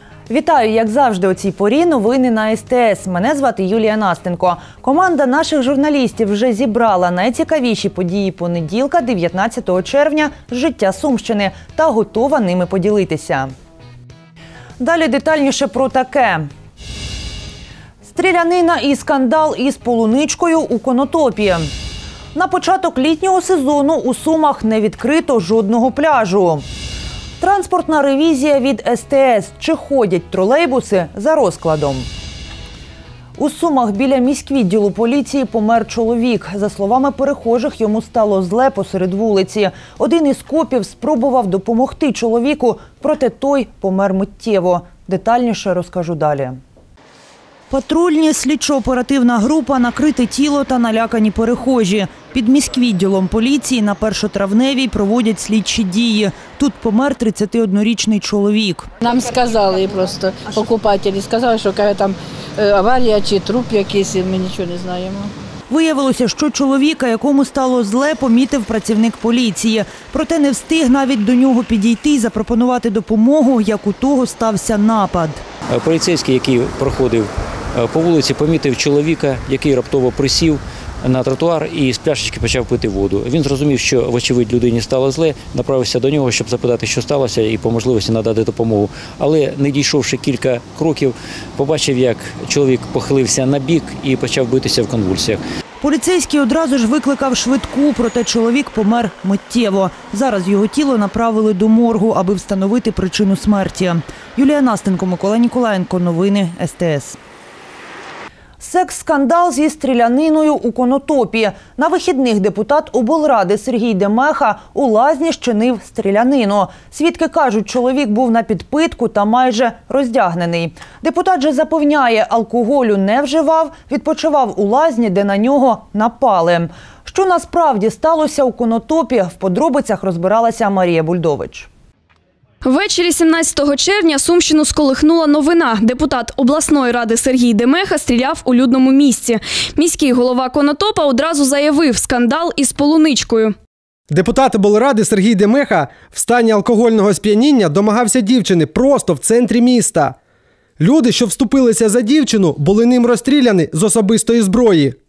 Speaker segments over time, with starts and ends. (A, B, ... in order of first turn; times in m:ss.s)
0:00.3-0:13.5 A
0:14.8-0:16.5 A
0:18.0-0:21.7 A
0:22.3-0:26.6 A
0:27.4-0:32.1 A
0:33.4-0:46.6 A
0:47.7-0:58.9 A
0:59.0-1:05.3 B
1:05.7-1:15.4 A
1:15.7-1:35.4 C
1:35.8-1:47.2 A
1:48.6-2:11.7 A
2:12.6-2:23.5 D
2:24.1-2:30.1 E
2:30.8-2:34.9 E